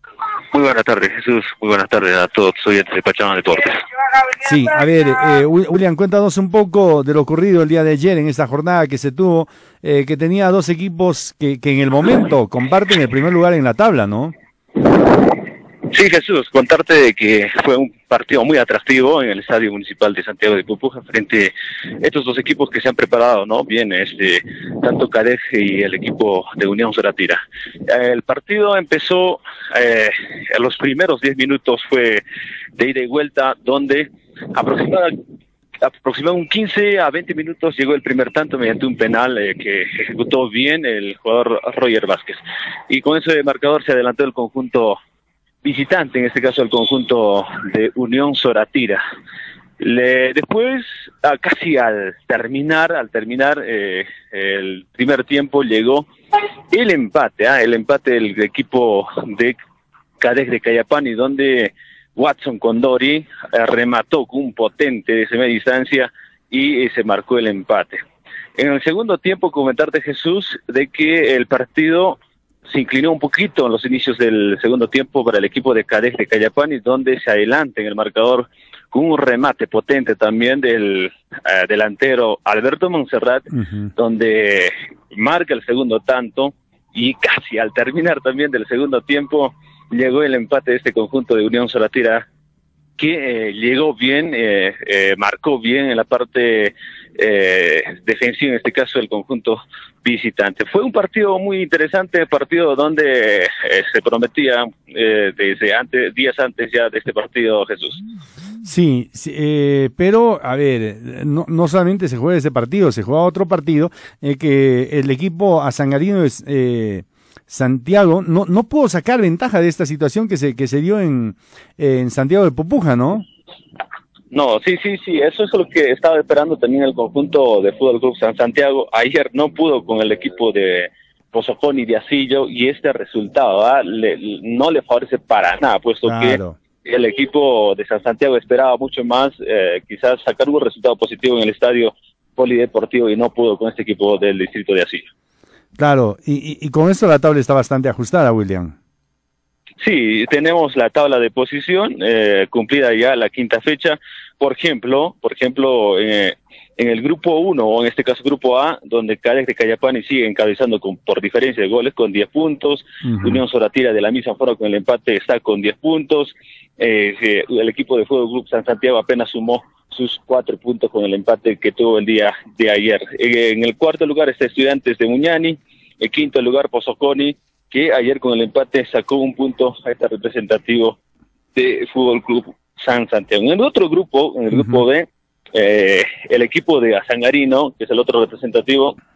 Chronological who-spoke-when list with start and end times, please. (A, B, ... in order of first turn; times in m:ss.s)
0:00.5-0:03.8 A
0:04.4-0:14.4 B
0:15.9-0:32.2 A
0:32.8-0:35.1 A
0:35.8-0:45.0 A
0:45.6-0:49.0 A
0:49.8-0:56.1 A
0:56.7-0:59.6 A
1:00.2-1:08.0 A
1:08.6-1:32.3 A
1:33.0-1:48.0 A
1:48.6-2:03.3 B
2:04.3-2:25.1 A
2:16.1-2:16.6 B
2:25.8-2:28.7 B
2:29.8-3:01.0 A
2:43.1-2:43.4 B
3:01.6-3:09.0 A